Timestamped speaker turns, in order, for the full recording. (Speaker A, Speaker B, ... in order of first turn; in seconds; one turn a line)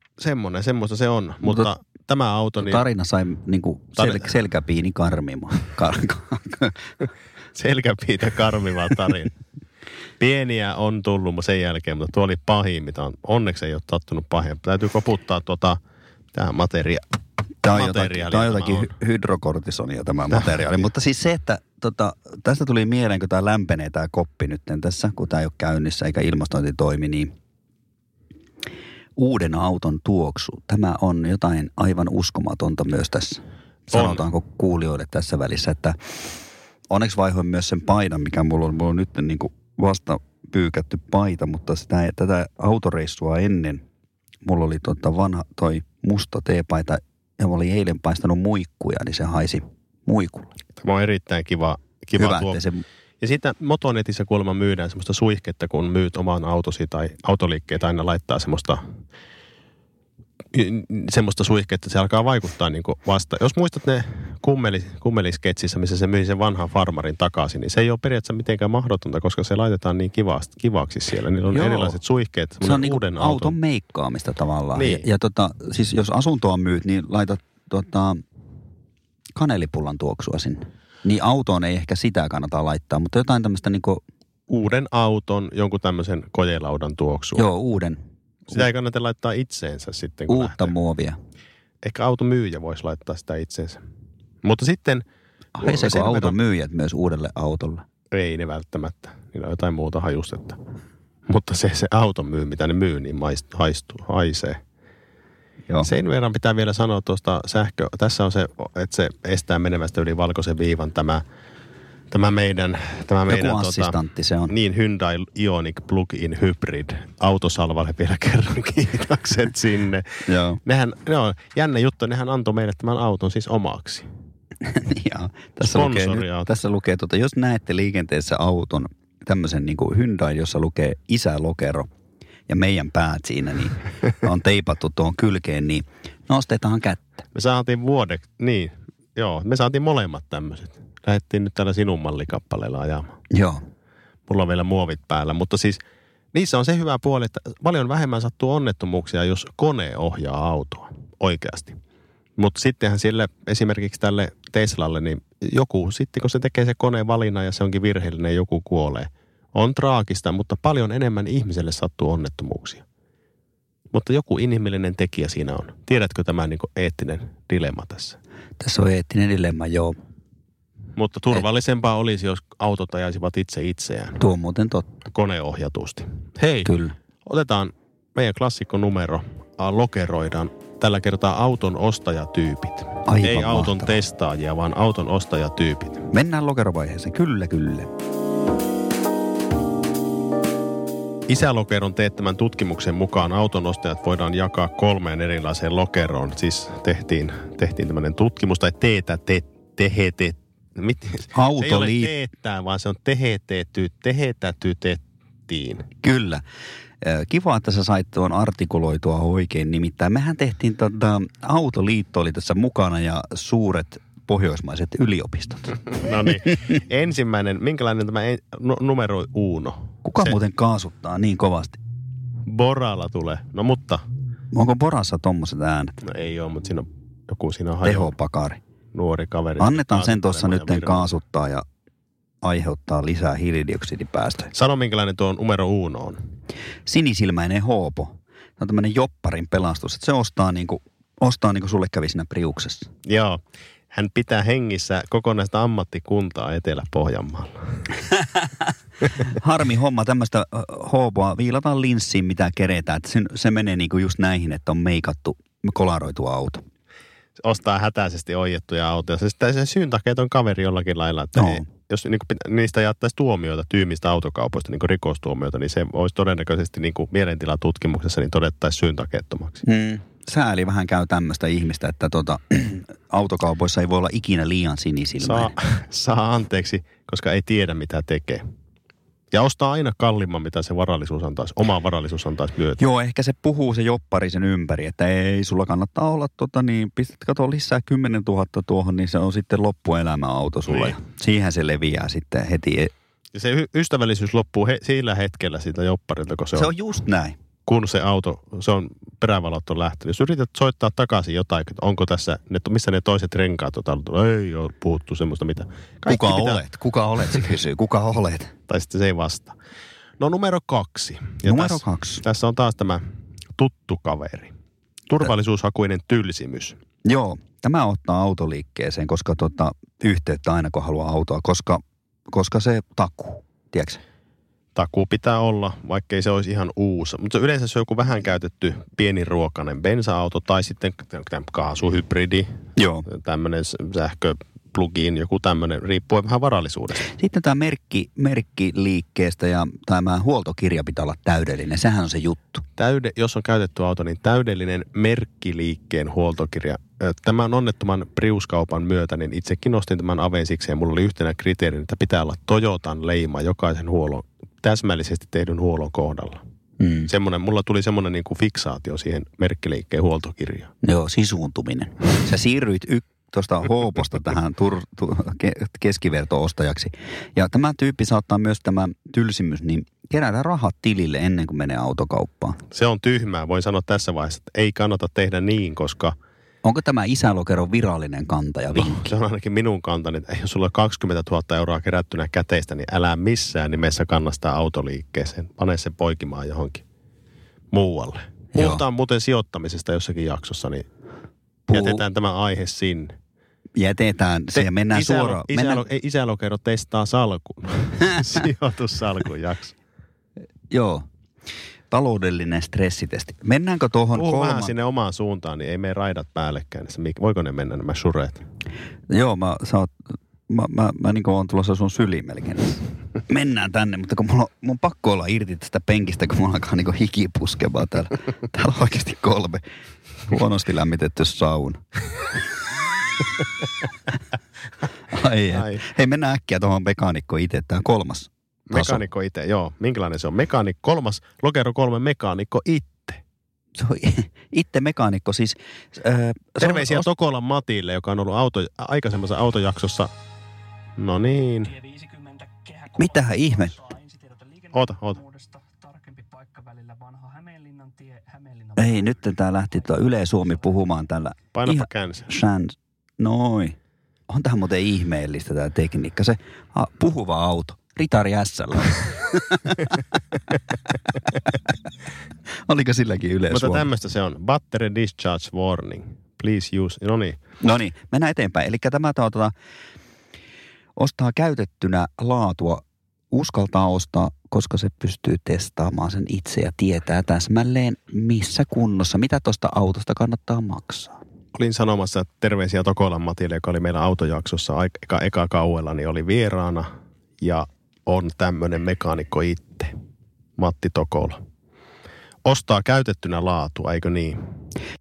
Speaker A: 0.2-2.8
Speaker B: 1.4-1.7
Speaker B: 2.6-6.8
Speaker A: 4.0-4.3
Speaker A: 7.5-9.3
Speaker A: 10.2-15.8
Speaker A: 16.3-17.0
Speaker B: 17.6-27.3
Speaker A: 17.7-18.9
Speaker A: 20.3-20.6
Speaker B: 29.1-36.0
Speaker A: 33.9-34.2
Speaker B: 36.9-43.8
Speaker B: 44.4-50.5
Speaker A: 50.8-52.6
Speaker B: 52.2-52.8
Speaker A: 53.2-58.8
Speaker A: 60.5-73.5
Speaker B: 71.5-72.0
Speaker B: 72.6-78.2
Speaker A: 74.7-75.0
Speaker B: 79.3-84.0
Speaker A: 84.5-87.5
Speaker B: 87.3-88.7
Speaker A: 88.5-90.7
Speaker B: 90.3-91.2
Speaker A: 91.8-93.8
Speaker A: 94.4-95.0
Speaker B: 95.5-97.8
Speaker A: 95.6-96.4
Speaker A: 98.1-100.6
Speaker A: 101.3-104.6
Speaker A: 105.8-111.2
Speaker A: 112.1-114.0
Speaker B: 113.3-114.5
Speaker A: 114.5-124.1
Speaker B: 120.2-120.6
Speaker B: 124.6-131.9
Speaker A: 125.6-126.5
Speaker B: 132.5-137.2
Speaker A: 137.3-143.2
Speaker B: 143.3-143.6
Speaker A: 144.3-145.8
Speaker A: 146.3-151.8
Speaker A: 152.4-162.8
Speaker A: 163.9-168.2
Speaker B: 168.6-169.9
Speaker A: 170.9-174.2
Speaker B: 174.2-174.9
Speaker A: 175.1-176.7
Speaker B: 176.6-176.9
Speaker A: 177.2-186.1
Speaker B: 183.1-184.0
Speaker B: 186.1-187.9
Speaker A: 191.3-205.9
Speaker B: 201.3-202.1
Speaker B: 206.0-206.4
Speaker B: 207.0-215.8
Speaker A: 215.9-220.3
Speaker B: 220.0-221.8
Speaker A: 222.5-224.0
Speaker B: 224.5-225.9
Speaker A: 226.0-228.1
Speaker B: 227.8-228.6
Speaker A: 228.9-231.1
Speaker B: 229.6-231.7
Speaker B: 232.4-234.5
Speaker A: 234.5-236.2
Speaker B: 236.8-242.9
Speaker A: 243.0-243.4
Speaker A: 243.9-247.8
Speaker B: 249.2-256.6
Speaker A: 257.4-269.6
Speaker B: 261.3-261.6
Speaker B: 269.6-275.5
Speaker A: 275.2-278.4
Speaker A: 279.3-282.8
Speaker B: 282.8-292.9
Speaker A: 290.7-291.0
Speaker A: 293.3-296.7
Speaker B: 296.5-297.4
Speaker A: 297.6-306.6
Speaker B: 306.1-308.5
Speaker A: 308.7-309.6
Speaker A: 310.2-313.0
Speaker B: 311.4-312.2
Speaker A: 313.6-314.5
Speaker A: 315.1-316.8
Speaker B: 317.0-324.0
Speaker A: 324.7-337.1
Speaker B: 332.8-333.1
Speaker B: 337.0-342.6
Speaker A: 342.8-356.4
Speaker B: 356.8-357.1
Speaker A: 357.1-360.7
Speaker B: 360.8-372.6
Speaker A: 372.7-376.1
Speaker B: 376.6-379.1
Speaker A: 378.7-386.8
Speaker A: 387.7-390.9
Speaker B: 388.5-388.8
Speaker B: 391.7-392.0
Speaker A: 391.7-393.1
Speaker B: 393.8-395.8
Speaker A: 394.5-399.8
Speaker B: 400.7-401.1
Speaker B: 401.9-404.7
Speaker A: 404.1-408.4
Speaker B: 409.1-409.9
Speaker B: 410.5-419.6
Speaker B: 420.3-422.4
Speaker B: 425.1-429.0
Speaker A: 425.5-425.8
Speaker A: 428.7-433.2
Speaker B: 433.8-437.1
Speaker A: 436.6-440.1
Speaker A: 441.0-441.7
Speaker C: 441.6-450.8
Speaker B: 443.0-443.7
Speaker A: 444.7-445.2
Speaker B: 448.8-453.8
Speaker A: 451.5-452.3
Speaker B: 454.3-460.0
Speaker B: 462.6-463.9
Speaker A: 463.5-467.4
Speaker B: 467.6-469.5
Speaker B: 470.9-481.2
Speaker A: 481.5-486.9
Speaker A: 487.4-489.9
Speaker A: 490.6-491.4
Speaker A: 492.4-494.4